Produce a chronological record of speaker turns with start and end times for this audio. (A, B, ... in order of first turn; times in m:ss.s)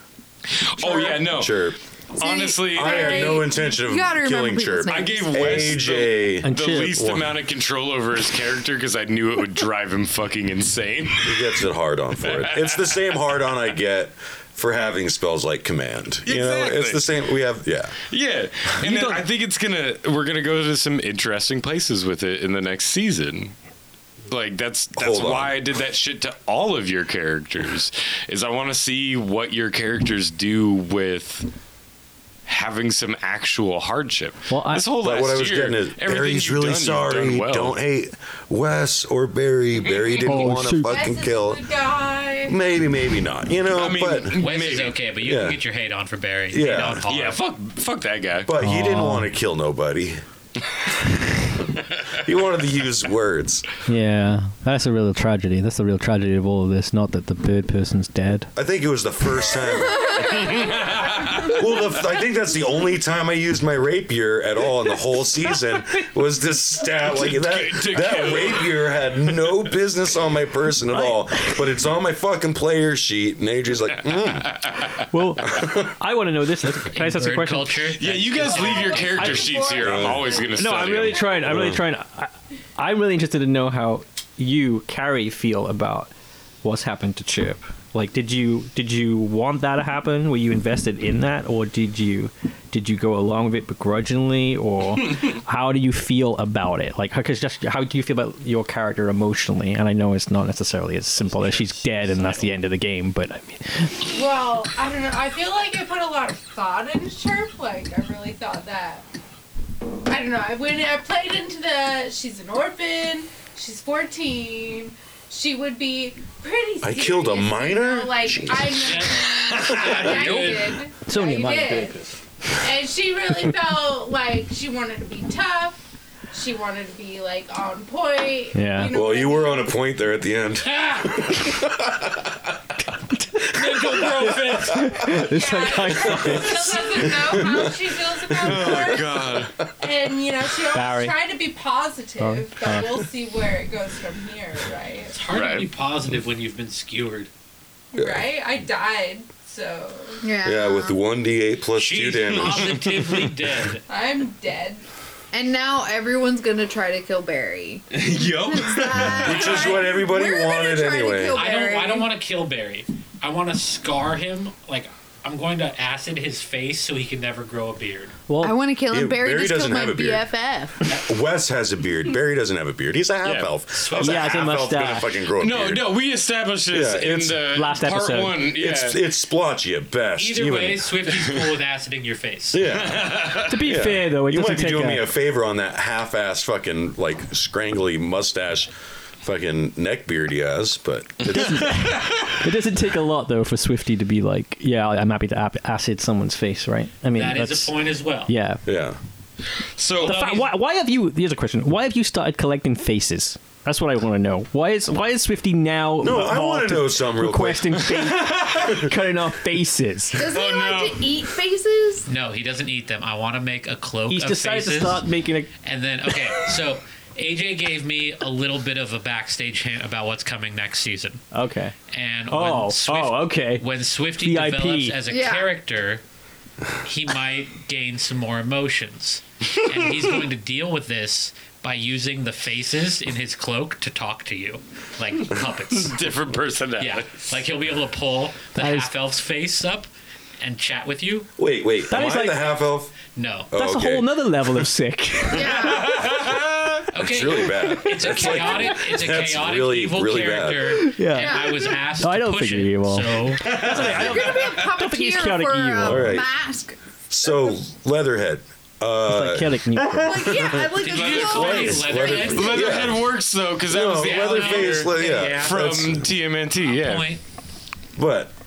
0:00.5-0:03.4 A
0:00.8-0:01.8 B
0:02.3-0:03.7 C
0:02.7-0:07.4 B
0:03.2-0:05.7 D
0:04.9-0:11.6 A
0:06.4-0:07.0 E
0:11.2-0:18.0 B
0:12.2-0:13.0 A
0:16.2-0:17.0 A
0:18.1-0:23.5 A
0:18.8-0:19.2 E
0:24.3-0:31.5 A
0:25.0-0:25.6 B
0:32.4-0:37.8 A
0:34.5-0:34.9 E
0:35.0-0:41.6 B
0:39.8-0:40.4 A
0:40.2-0:41.1 E
0:40.7-0:42.6 C
0:42.5-0:44.4 B
0:43.7-0:45.0 A
0:44.4-0:47.4 F
0:45.2-0:45.6 B
0:46.5-0:47.0 B
0:47.1-0:48.5 A
0:48.4-0:50.2 B
0:48.5-0:49.3 E
0:52.1-0:53.6 B
0:53.8-0:58.5 E
0:58.5-1:00.7 B
1:00.2-1:01.6 A
1:01.3-1:14.6 B
1:07.0-1:08.9 A
1:10.9-1:11.7 E
1:14.4-1:14.8 A
1:15.1-1:17.9 E
1:16.9-1:19.4 F
1:18.0-1:21.3 A
1:18.5-1:21.4 C
1:19.1-1:44.0 E
1:19.8-1:20.3 B
1:21.4-1:21.8 B
1:41.2-1:42.6 F
1:44.1-1:49.0 C
1:50.1-2:02.0 C
1:56.8-2:00.0 B
1:58.7-2:00.7 F
1:59.4-2:00.7 A
2:01.0-2:02.1 E
2:02.6-2:05.8 C
2:06.3-2:09.7 C
2:08.5-2:08.9 E
2:08.9-2:12.3 B
2:10.6-2:11.1 F
2:13.5-2:14.8 F
2:13.6-2:17.4 E
2:15.0-2:25.1 C
2:16.1-2:16.5 B
2:17.0-2:17.7 B
2:18.4-2:19.6 A
2:18.4-2:18.8 B
2:20.7-2:21.2 E
2:22.2-2:23.0 E
2:25.1-2:27.3 F
2:25.3-2:25.7 A
2:27.9-2:30.2 C
2:27.9-2:28.3 B
2:30.2-2:31.0 D
2:30.4-2:32.8 B
2:31.7-2:33.8 F
2:33.9-2:34.8 C
2:35.3-2:42.1 D
2:37.9-2:39.8 A
2:39.2-2:41.4 B
2:39.4-2:39.8 C
2:41.3-2:48.1 F
2:48.3-2:48.6 E
2:48.4-2:50.8 D
2:48.9-2:50.3 B
2:50.8-2:55.9 B
2:53.2-2:53.5 A
2:53.7-2:54.7 F
2:54.0-2:55.1 E
2:55.4-2:59.0 A
2:56.7-2:57.4 B
2:57.5-2:58.4 E
2:58.4-3:00.9 B
3:00.2-3:02.6 F
3:02.5-3:08.7 B
3:02.7-3:03.6 A
3:03.4-3:05.1 E
3:09.2-3:11.8 B
3:11.3-3:17.8 E
3:11.3-3:12.4 A
3:17.1-3:18.3 F
3:18.3-3:18.6 E
3:18.6-3:19.0 B
3:19.7-3:20.3 A
3:20.0-3:20.5 F
3:20.0-3:30.3 E
3:26.0-3:27.8 B
3:27.8-3:28.8 A
3:30.1-3:32.0 D
3:30.2-3:31.1 A
3:32.1-3:35.1 F
3:34.1-3:35.5 E
3:35.6-3:41.2 F
3:41.3-3:41.7 E
3:41.9-3:46.0 F
3:42.3-3:43.6 E
3:44.2-3:45.0 E
3:45.0-3:45.5 D
3:46.8-3:56.0 F
3:55.7-3:57.3 A
3:56.8-3:59.9 F
3:58.5-3:58.9 E
4:00.4-4:01.3 F
4:01.4-4:02.9 B
4:01.9-4:02.5 E
4:03.2-4:03.5 F
4:03.5-4:04.6 B
4:03.5-4:05.8 E
4:05.3-4:06.9 A
4:05.3-4:05.9 D
4:06.9-4:13.6 F
4:07.0-4:10.8 B
4:10.8-4:16.2 E
4:11.1-4:11.8 D
4:13.4-4:14.7 A
4:13.6-4:17.6 D
4:15.8-4:16.3 B
4:17.1-4:23.1 B
4:19.0-4:20.4 E
4:20.0-4:22.6 D
4:20.7-4:27.1 A
4:20.8-4:22.8 F
4:23.7-4:26.1 B
4:24.0-4:25.6 F
4:26.6-4:27.2 F
4:28.0-4:28.3 B